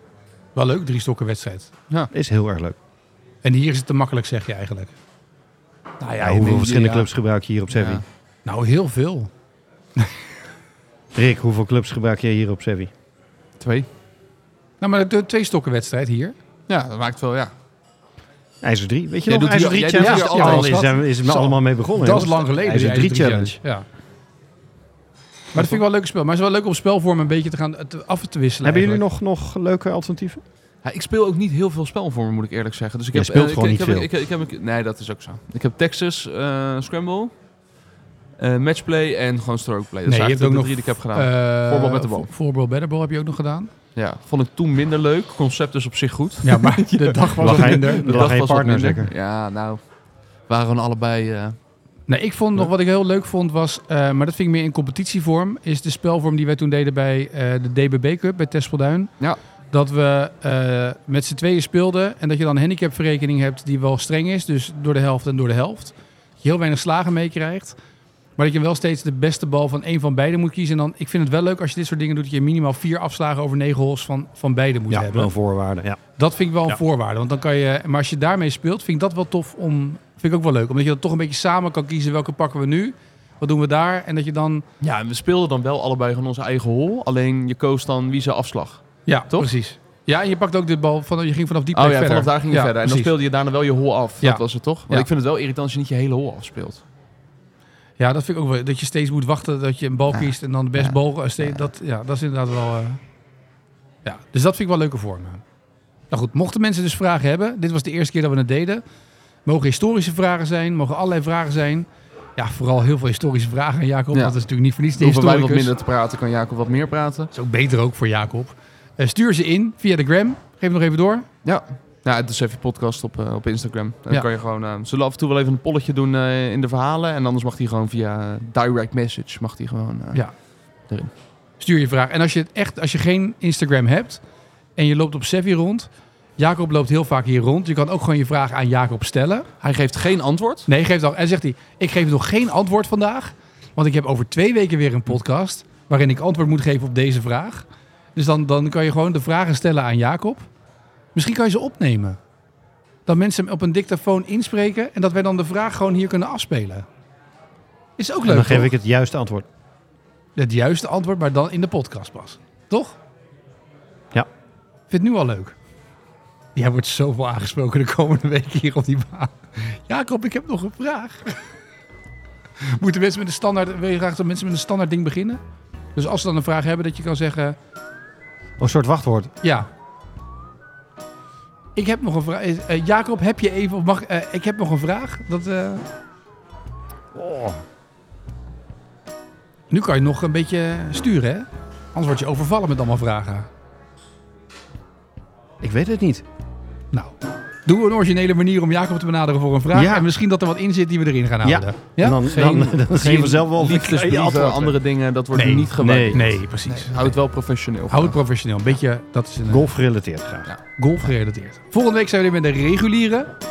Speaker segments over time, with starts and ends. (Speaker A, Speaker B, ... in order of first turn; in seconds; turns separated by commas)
Speaker A: 0.6-1.7, Speaker B: 2.1-2.8, Speaker A: 3.4-4.9, Speaker C: 6.0-7.0, Speaker B: 6.2-8.0, Speaker C: 7.7-8.0, Speaker A: 8.4-9.3, Speaker B: 11.1-12.9, Speaker C: 13.6-13.9, Speaker A: 14.8-16.4, Speaker C: 16.7-17.5, Speaker B: 18.6-23.6, Speaker C: 19.3-20.8, Speaker A: 20.0-23.9, Speaker A: 25.5-29.0, Speaker C: 25.6-25.8, Speaker B: 28.6-30.4, Speaker C: 30.8-37.3, Speaker B: 33.1-34.1, Speaker C: 38.4-42.3, Speaker A: 40.1-43.7, Speaker C: 44.0-49.8, Speaker A: 46.4-48.4, Speaker B: 47.4-49.1, Speaker C: 50.5-51.6, Speaker A: 52.1-59.1, Speaker A: 59.7-67.8, Speaker A: 68.4-75.3, Speaker B: 74.9-76.0, Speaker A: 76.2-84.7, Speaker C: 84.8-89.5, Speaker A: 89.1-93.1, Speaker C: 91.7-96.8, Speaker A: 94.2-95.1, Speaker A: 98.0-103.0, Speaker C: 100.1-101.7, Speaker A: 104.0-105.4, Speaker A: 106.1-108.8, Speaker A: 109.5-115.7, Speaker C: 115.0-117.3, Speaker A: 117.3-121.3, Speaker C: 121.5-130.2, Speaker A: 131.6-134.2, Speaker A: 134.8-139.5, Speaker C: 139.6-140.7, Speaker A: 140.7-150.5, Speaker A: 151.2-152.2, Speaker A: 153.1-156.8, Speaker A: 158.0-158.7, Speaker B: 158.3-159.5, Speaker A: 160.4-163.0, Speaker A: 164.9-165.6, Speaker A: 166.6-171.4, Speaker A: 172.6-175.4, Speaker A: 175.9-177.6, Speaker B: 178.6-179.3, Speaker A: 179.4-179.7, Speaker A: 181.8-185.8, Speaker B: 187.2-187.6, Speaker A: 189.7-193.5, Speaker B: 195.6-196.2, Speaker A: 197.7-202.2, Speaker B: 199.7-200.1, Speaker B: 201.4-204.8, Speaker C: 202.2-208.2, Speaker A: 205.3-207.1, Speaker B: 205.8-206.3, Speaker A: 207.9-209.7, Speaker B: 209.5-210.5, Speaker A: 210.8-213.3